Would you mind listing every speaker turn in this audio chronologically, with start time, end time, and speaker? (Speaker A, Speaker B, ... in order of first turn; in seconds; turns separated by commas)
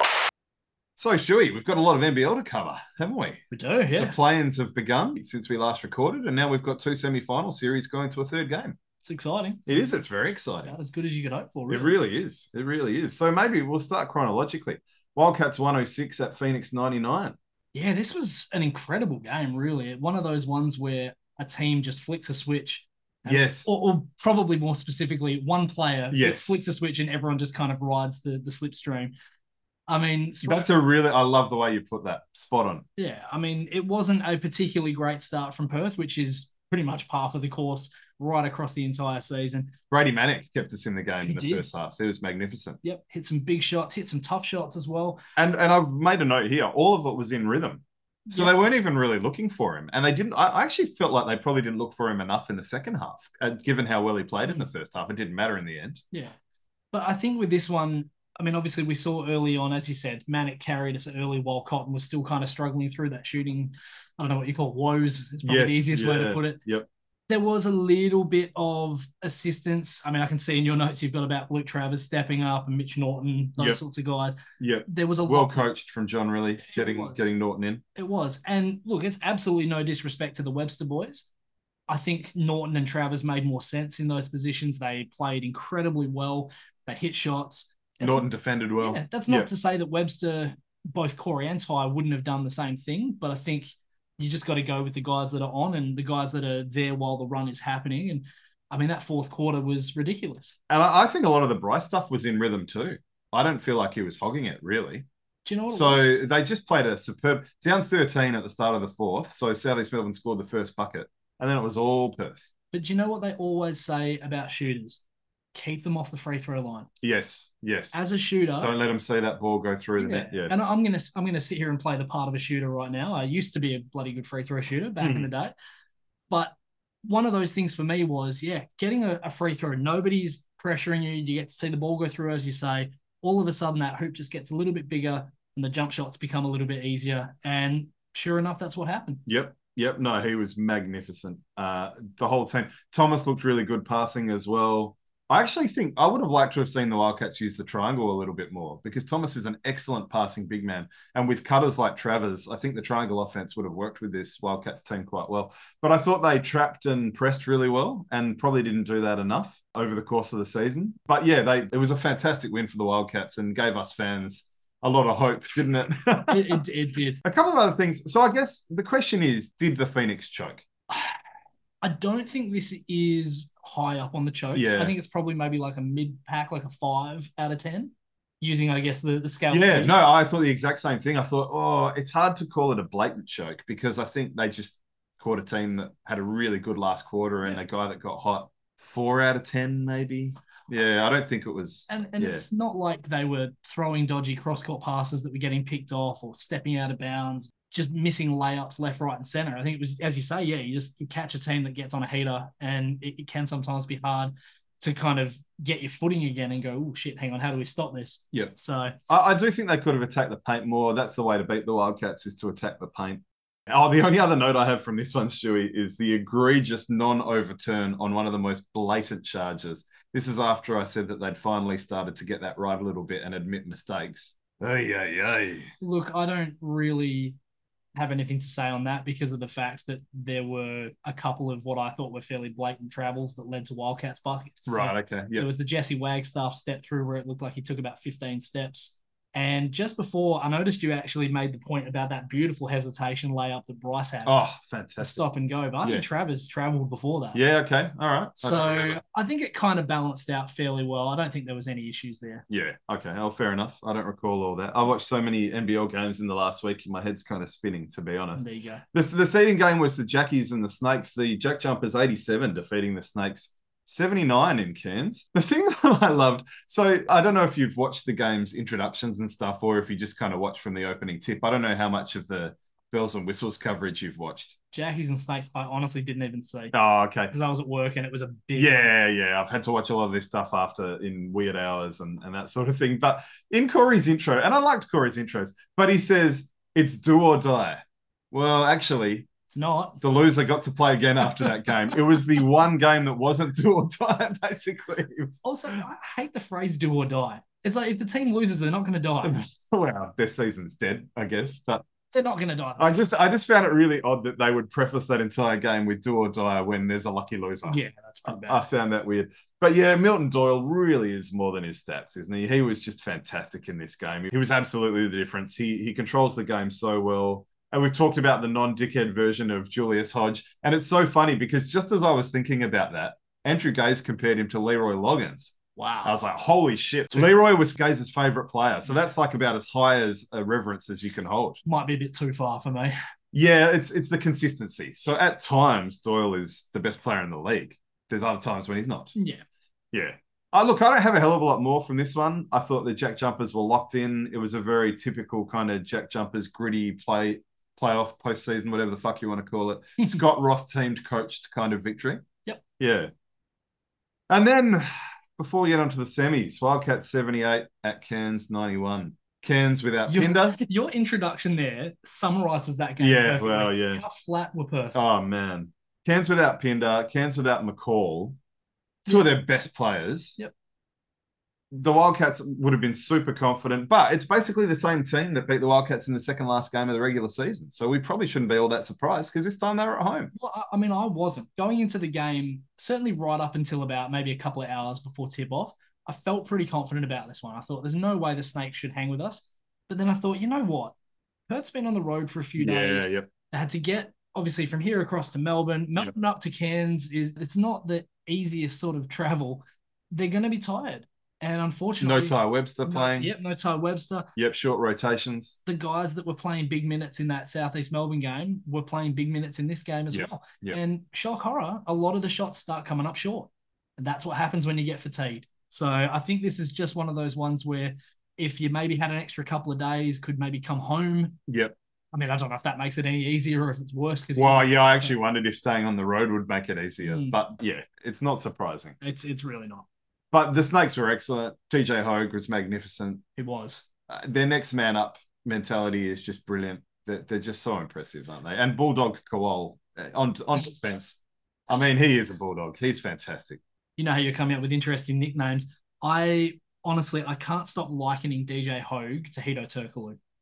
Speaker A: 1.0-3.4, Speaker B: 3.5-4.2, Speaker A: 4.0-8.8, Speaker B: 9.0-9.9, Speaker A: 9.7-10.7, Speaker B: 10.6-11.9, Speaker A: 11.7-17.4, Speaker B: 17.7-29.1, Speaker A: 23.3-23.7, Speaker A: 26.1-26.6, Speaker B: 29.9-30.7, Speaker A: 30.4-32.8, Speaker B: 33.0-39.7, Speaker A: 39.9-42.8, Speaker B: 41.2-41.7, Speaker B: 42.8-45.2, Speaker A: 45.4-56.0, Speaker B: 48.3-48.5, Speaker B: 56.9-66.6, Speaker A: 65.4-66.9, Speaker B: 67.3-75.7, Speaker A: 74.6-77.8, Speaker B: 76.6-77.3, Speaker B: 78.0-81.3, Speaker B: 81.9-100.5, Speaker A: 88.0-89.5, Speaker A: 100.7-105.0, Speaker B: 105.4-106.1, Speaker A: 105.7-112.4, Speaker B: 112.7-115.0, Speaker B: 115.5-116.9, Speaker A: 117.0-118.0, Speaker B: 117.9-118.7, Speaker A: 118.6-120.5, Speaker B: 120.0-125.5, Speaker A: 125.0-125.3, Speaker B: 126.3-139.2, Speaker A: 139.3-166.6, Speaker B: 166.2-167.2, Speaker A: 167.2-170.7, Speaker B: 171.8-180.0, Speaker A: 174.5-174.9, Speaker A: 179.5-192.4, Speaker B: 191.9-209.0, Speaker A: 209.1-225.7, Speaker B: 225.8-227.4, Speaker B: 227.9-244.3, Speaker A: 234.7-235.5, Speaker A: 244.2-245.2, Speaker B: 245.0-247.4, Speaker A: 247.3-249.0, Speaker B: 248.4-252.4, Speaker A: 252.5-274.5, Speaker B: 258.4-258.8, Speaker B: 274.7-276.7, Speaker A: 276.7-277.3, Speaker B: 277.3-278.9, Speaker A: 278.5-287.8, Speaker A: 288.3-289.3, Speaker B: 289.5-290.0, Speaker A: 290.0-295.4, Speaker B: 295.4-299.4, Speaker A: 299.2-301.8, Speaker B: 302.1-303.1, Speaker A: 302.8-331.6, Speaker B: 307.6-308.6, Speaker B: 325.8-326.1, Speaker B: 331.6-332.9, Speaker A: 333.3-339.1, Speaker B: 339.1-339.4, Speaker A: 339.9-352.2, Speaker A: 352.8-353.1, Speaker A: 354.3-360.6, Speaker B: 360.1-365.0, Speaker A: 363.0-364.0, Speaker A: 364.9-368.4, Speaker A: 369.0-370.4, Speaker A: 371.7-380.3, Speaker B: 380.3-390.9, Speaker B: 391.5-404.3, Speaker A: 392.6-393.3, Speaker A: 402.0-403.3, Speaker A: 404.4-405.6, Speaker B: 405.6-421.4, Speaker A: 410.1-410.8, Speaker A: 421.5-421.7, Speaker B: 422.1-425.1, Speaker A: 424.3-428.9, Speaker B: 427.0-427.4, Speaker B: 429.0-429.9, Speaker A: 430.3-433.2, Speaker B: 433.4-433.8, Speaker A: 434.1-443.6, Speaker B: 444.0-450.2